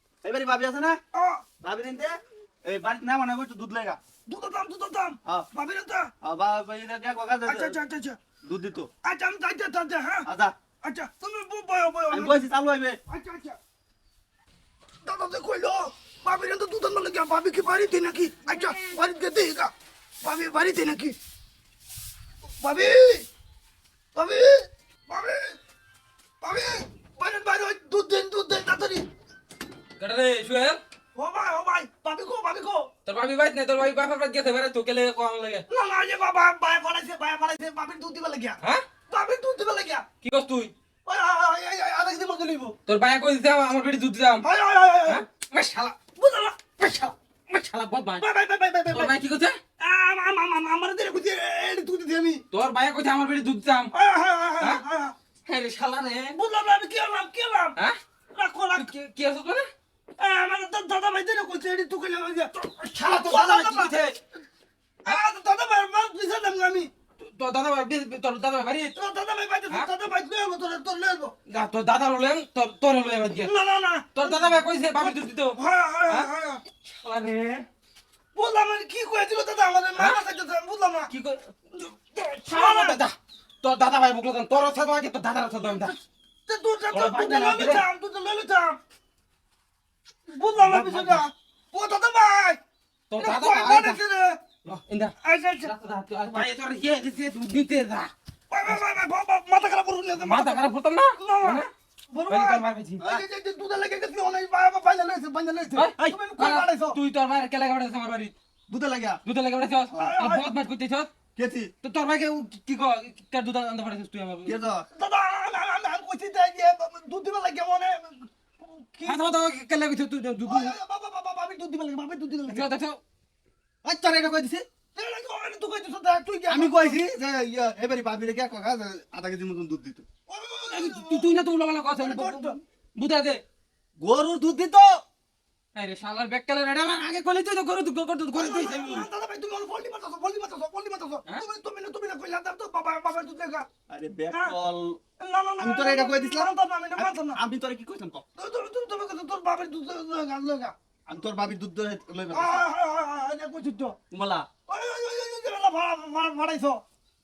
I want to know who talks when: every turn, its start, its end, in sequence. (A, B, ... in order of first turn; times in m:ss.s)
0:00.2-0:01.0 A
0:01.1-0:01.4 B
0:01.6-0:04.0 A
0:04.3-0:06.1 B
0:06.2-0:07.8 A
0:07.5-0:08.2 B
0:08.4-0:08.9 A
0:09.0-0:10.3 B
0:10.2-0:10.5 A
0:10.8-0:12.4 B
0:12.1-0:13.0 A
0:13.1-0:13.6 B
0:15.0-0:21.2 B
0:22.6-0:23.3 B
0:24.2-0:25.6 B
0:26.4-0:29.1 B
0:30.0-0:30.8 C
0:31.2-0:32.9 B
0:33.1-0:35.6 C
0:35.7-0:40.1 B
0:40.2-0:40.7 C
0:41.1-0:42.8 B
0:42.9-0:44.5 C
0:44.4-0:45.2 B
0:45.1-0:46.0 C
0:46.2-0:46.8 B
0:46.8-0:48.2 C
0:48.2-0:49.2 B
0:48.9-0:49.6 C
0:49.8-0:52.4 B
0:52.5-0:53.9 C
0:53.9-0:55.2 B
0:55.5-0:56.4 C
0:56.4-0:57.8 B
0:58.3-0:58.9 B
0:58.8-0:59.7 C
1:00.2-1:04.0 B
1:02.9-1:04.2 C
1:05.0-1:06.9 B
1:07.2-1:08.9 C
1:09.0-1:11.4 B
1:11.5-1:13.5 C
1:13.4-1:16.6 B
1:14.2-1:15.6 C
1:17.0-1:17.7 C
1:18.4-1:21.1 B
1:21.1-1:25.9 C
1:22.2-1:23.0 B
1:25.6-1:25.9 B
1:26.5-1:28.8 B
1:26.9-1:27.8 C
1:30.3-1:32.6 B
1:30.6-1:31.2 A
1:33.1-1:34.0 C
1:33.2-1:34.4 B
1:34.7-1:38.1 C
1:35.2-1:35.7 B
1:38.5-1:47.0 B
1:40.2-1:41.7 C
1:42.3-1:43.0 C
1:45.7-1:48.3 C
1:48.7-1:49.2 A
1:49.2-1:51.1 C
1:49.9-1:50.5 B
1:51.4-1:51.7 A
1:51.8-1:54.6 C
1:54.4-1:54.9 A
1:55.0-1:59.2 B
1:59.1-2:00.8 C
2:00.4-2:02.7 B
2:02.5-2:03.0 C
2:03.8-2:04.6 A
2:05.0-2:07.0 B
2:06.5-2:10.1 A
2:10.3-2:11.3 B
2:10.7-2:13.4 C
2:12.0-2:12.6 B
2:14.0-2:15.0 A
2:15.8-2:19.1 C
2:18.3-2:23.7 B
2:23.9-2:25.0 A
2:24.3-2:24.6 B
2:25.2-2:27.4 B
2:25.6-2:28.2 A
2:28.4-2:30.7 B
2:31.1-2:32.7 A
2:32.3-2:34.0 B
2:34.1-2:34.5 A
2:34.7-2:36.8 B